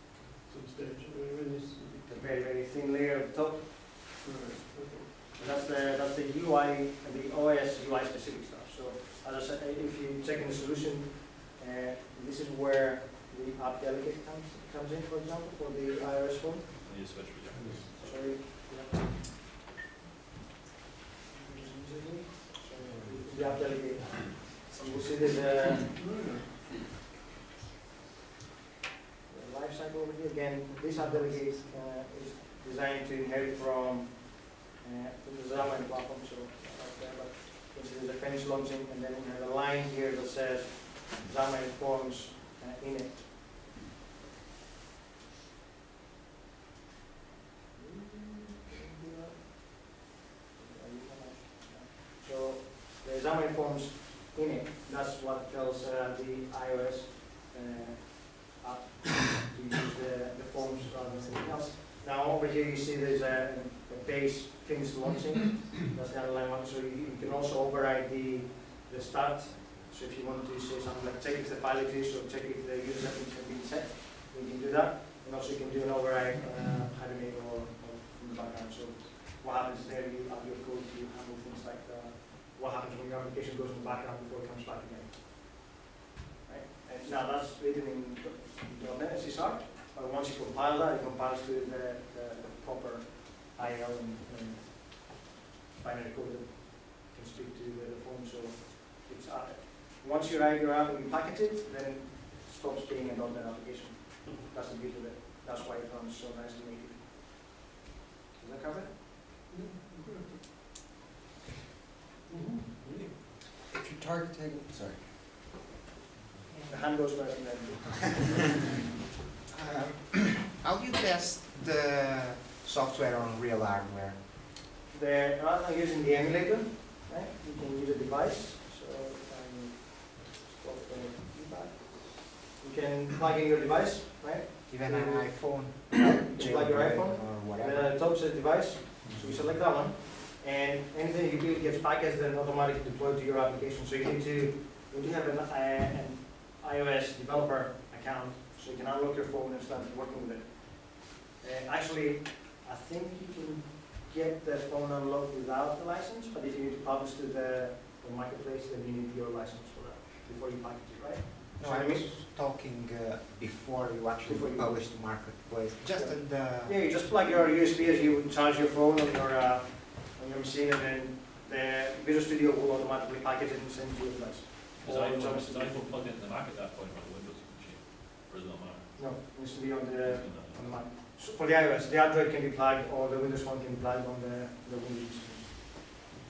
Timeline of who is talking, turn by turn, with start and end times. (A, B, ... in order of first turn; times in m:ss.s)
0:00.4-0:02.1 A
0:02.0-0:03.9 B
0:04.2-0:05.3 A
0:05.3-0:16.7 B
0:16.8-0:17.9 C
0:17.5-0:17.9 A
0:18.0-0:18.9 B
0:21.4-0:25.9 B
0:25.9-0:26.7 A
0:29.3-0:43.4 B
0:47.7-0:49.9 B
0:50.5-1:25.5 B
1:26.4-1:35.2 B
1:35.8-1:47.4 B
1:48.4-1:49.0 B
1:49.5-1:50.5 A
1:52.3-1:53.2 A
1:53.2-1:55.4 D
1:56.5-1:57.0 E
1:56.7-1:58.8 B
1:59.5-2:04.2 E
2:04.9-2:42.1 B
2:14.7-2:18.0 E
2:41.6-2:47.0 E
2:44.2-2:44.7 B
2:45.9-2:56.0 B
2:54.8-2:59.3 C
2:59.0-3:05.5 B
3:00.0-3:00.8 C